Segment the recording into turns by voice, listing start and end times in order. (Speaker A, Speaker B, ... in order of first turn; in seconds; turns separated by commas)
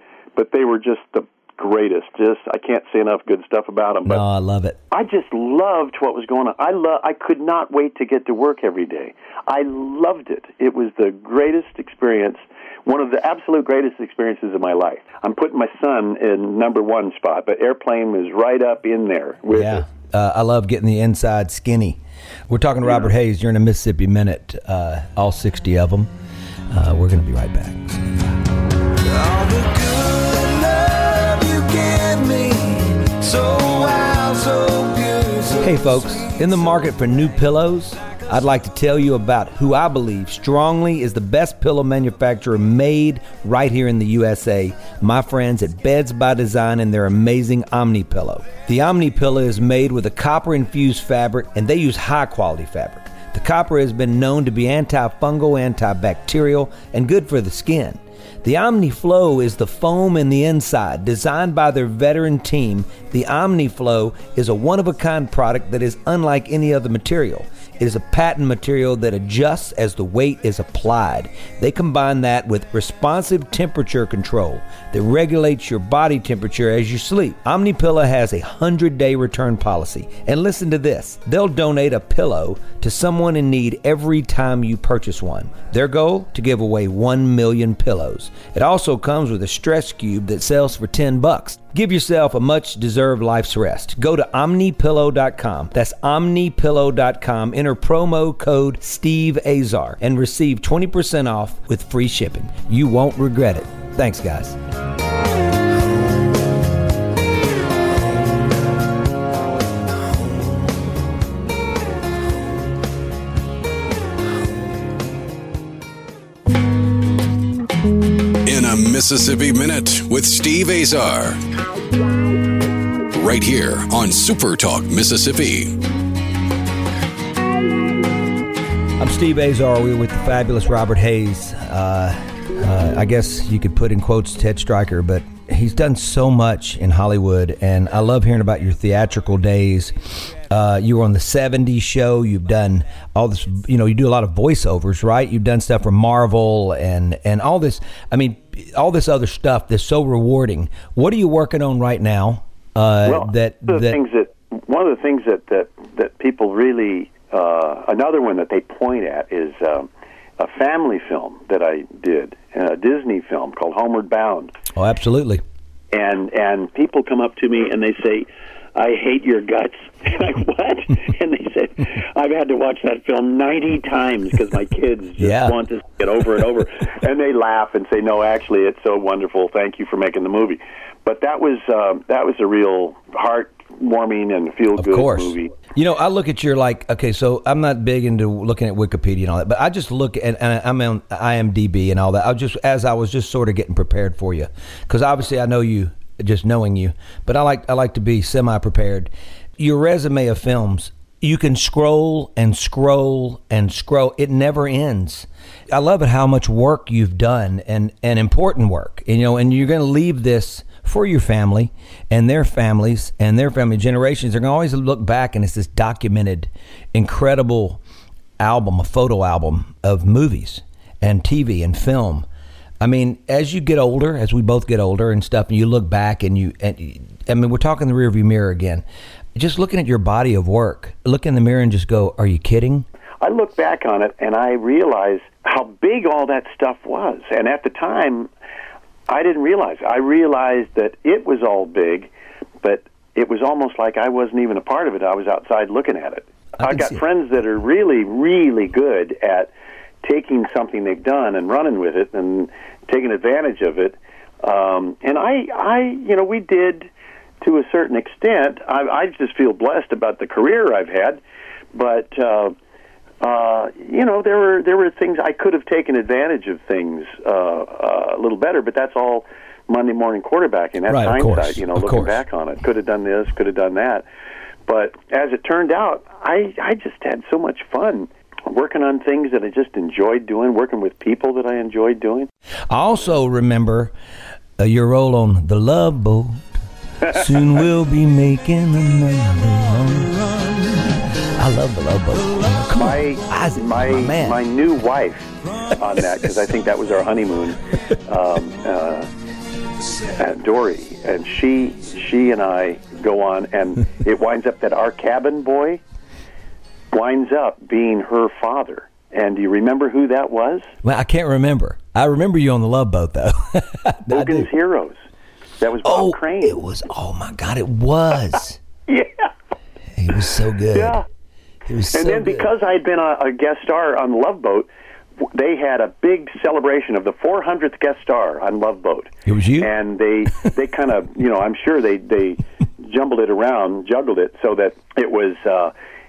Speaker A: 0.3-4.2, Speaker B: 4.0-4.8, Speaker A: 4.9-19.9, Speaker B: 19.5-26.1, Speaker B: 26.7-28.4, Speaker B: 28.9-104.6, Speaker C: 118.5-121.4, Speaker C: 123.1-125.8, Speaker B: 129.0-154.0, Speaker A: 153.1-164.5, Speaker B: 164.8-165.4, Speaker A: 165.9-185.6, Speaker B: 175.2-175.6, Speaker B: 184.8-217.8, Speaker B: 218.4-222.2, Speaker B: 222.8-228.8, Speaker B: 229.3-232.9, Speaker A: 233.2-238.3, Speaker A: 239.1-242.1, Speaker A: 242.6-249.5, Speaker B: 246.6-247.0, Speaker A: 250.0-256.9, Speaker A: 257.4-261.2, Speaker A: 261.7-262.6, Speaker A: 263.2-274.1, Speaker B: 270.9-272.2, Speaker A: 274.7-282.3, Speaker B: 282.7-283.9, Speaker B: 284.6-294.4, Speaker A: 292.8-299.1, Speaker A: 300.0-305.8, Speaker A: 306.9-310.7, Speaker B: 310.8-314.5, Speaker A: 314.1-315.0, Speaker A: 315.6-316.6, Speaker B: 315.8-318.6, Speaker A: 318.9-319.3, Speaker B: 320.0-321.0, Speaker A: 320.7-321.1, Speaker B: 321.7-322.5, Speaker A: 321.9-335.7, Speaker B: 329.3-329.7